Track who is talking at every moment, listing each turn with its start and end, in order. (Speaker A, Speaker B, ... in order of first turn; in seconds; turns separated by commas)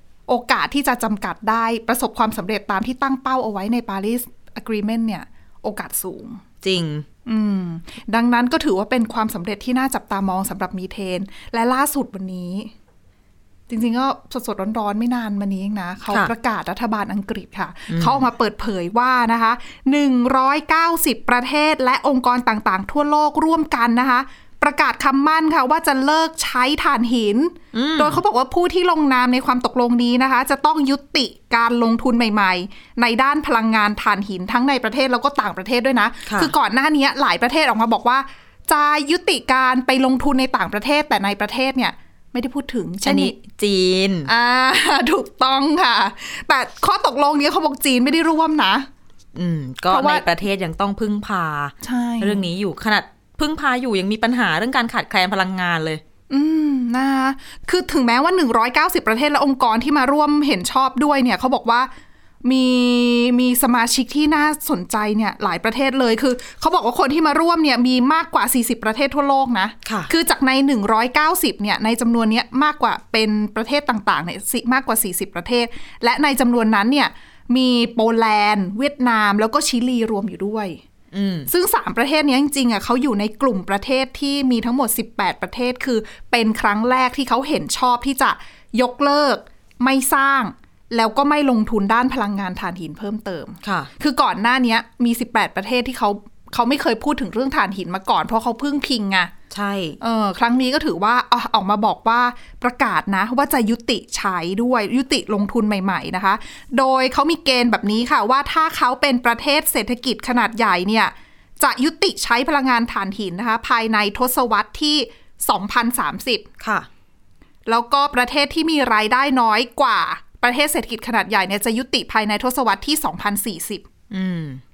Speaker A: 0.3-6.4, Speaker B: 6.6-7.0, Speaker A: 7.3-12.7, Speaker A: 13.7-43.4, Speaker B: 17.9-18.2, Speaker B: 27.7-28.2, Speaker B: 36.3-36.5, Speaker B: 43.0-44.3, Speaker A: 44.3-48.9, Speaker B: 49.4-56.0, Speaker A: 49.9-50.3, Speaker A: 51.8-52.5, Speaker A: 56.3-61.9, Speaker A: 62.4-80.8, Speaker B: 69.8-70.1, Speaker B: 81.1-81.5, Speaker A: 81.5-99.3, Speaker B: 93.6-93.9, Speaker B: 99.5-100.0, Speaker A: 100.0-116.5, Speaker B: 116.6-116.9, Speaker A: 117.7-123.9, Speaker B: 124.1-124.6